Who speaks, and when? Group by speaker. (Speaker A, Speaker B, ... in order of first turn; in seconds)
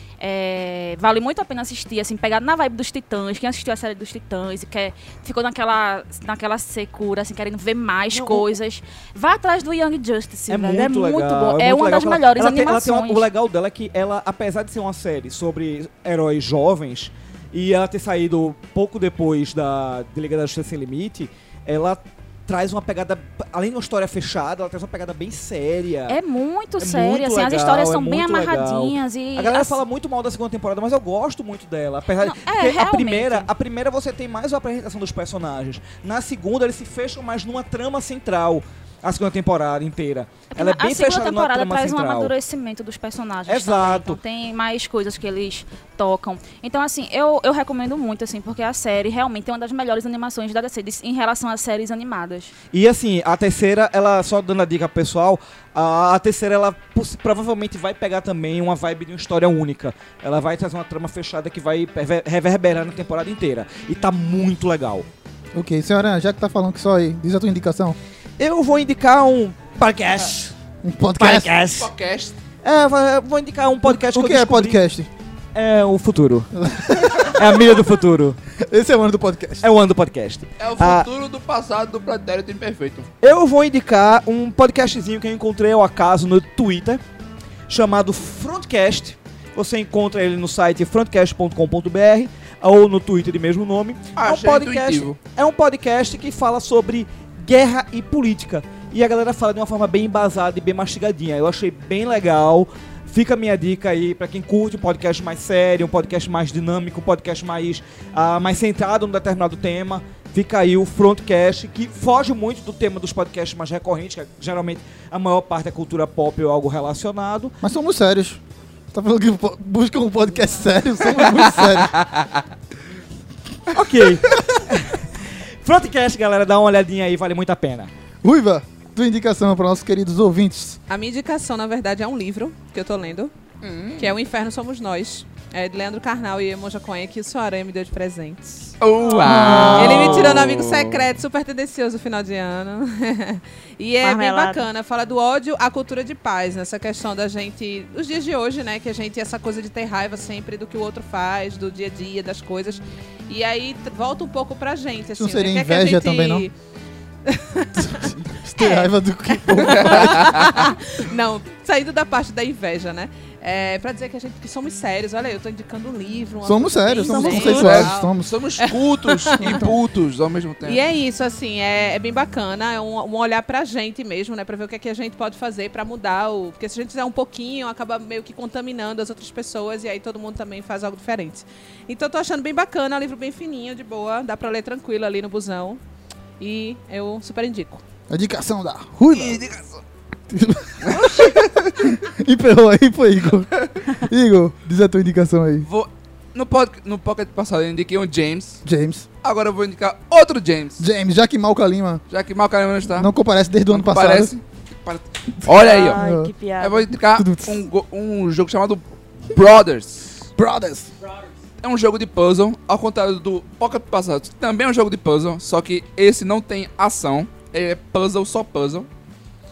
Speaker A: 0.2-13.3, 26.1-29.8, 32.2-33.5, 40.5-52.5
Speaker B: 8.1-8.5, 10.5-26.2, 26.8-42.3, 43.5-44.2, 52.7-65.1, 68.4-70.5, 71.2-71.9, 72.6-74.8, 75.5-76.5, 77.2-78.4, 79.6-81.1, 83.2-87.0, 87.7-117.6, 123.7-127.9
Speaker C: 65.5-68.0, 70.8-71.5, 73.8-75.1, 76.5-77.6, 78.7-79.7, 117.6-122.1, 128.2-130.8, 155.2-156.5, 157.8-160.5, 166.4-168.3, 188.1-189.4, 190.3-195.7, 198.7-199.1, 200.8-202.0, 202.9-204.3, 205.5-206.3, 207.2-207.6, 210.4-210.9
Speaker D: 71.8-72.3, 80.6-83.1, 94.2-95.2, 133.6-134.2, 138.8-141.1, 159.6-160.7, 167.4-170.9, 189.1-189.8, 190.8-191.8, 195.7-198.6, 199.2-200.9, 202.1-203.1, 203.7-206.0, 206.6-210.2, 211.6-218.9
Speaker E: 130.9-133.3, 134.0-156.5, 157.3-169.7, 170.6-185.8, 186.4-187.8
Speaker F: 144.0-144.7, 167.0-167.7, 205.6-206.9